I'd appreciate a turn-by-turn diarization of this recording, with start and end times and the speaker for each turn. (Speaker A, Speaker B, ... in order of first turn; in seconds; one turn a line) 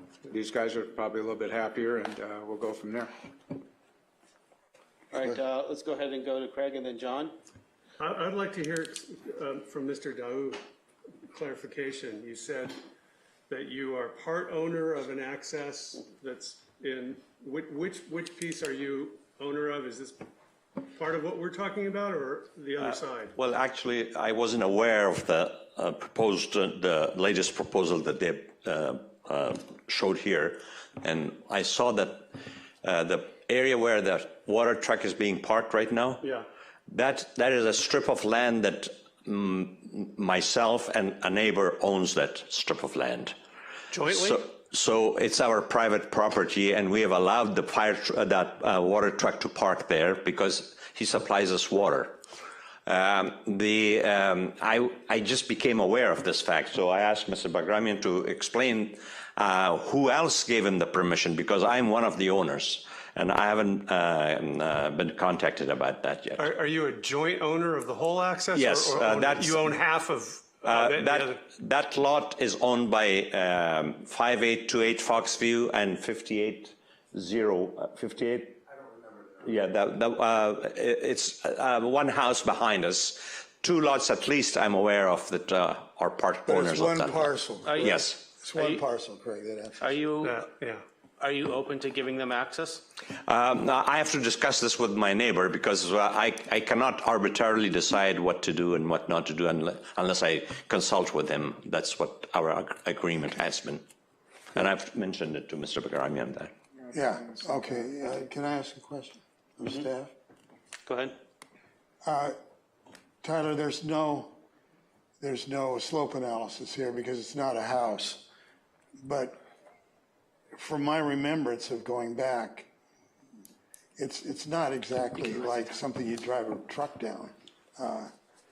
Speaker A: 0.2-3.1
Speaker B: 5.1-7.3
Speaker C: 8.0-10.6
Speaker C: 11.3-12.8
Speaker C: 13.5-20.2
Speaker C: 20.8-23.3
Speaker D: 22.8-36.3
Speaker D: 36.9-43.3
Speaker B: 44.0-44.4
Speaker D: 44.1-52.2
Speaker D: 52.9-66.5
Speaker C: 66.4-71.4
Speaker D: 68.5-69.8
Speaker D: 70.6-78.6
Speaker D: 79.4-88.2
Speaker E: 86.5-89.9
Speaker B: 87.7-88.0
Speaker B: 88.5-88.8
Speaker B: 89.8-90.5
Speaker C: 90.2-90.8
Speaker B: 91.2-92.8
Speaker D: 93.3-103.8
Speaker D: 104.5-106.5
Speaker E: 106.9-110.1
Speaker B: 110.9-111.1
Speaker E: 112.0-112.3
Speaker E: 113.2-114.3
Speaker E: 115.2-118.2
Speaker E: 119.0-119.4
Speaker E: 120.5-122.7
Speaker E: 124.0-128.1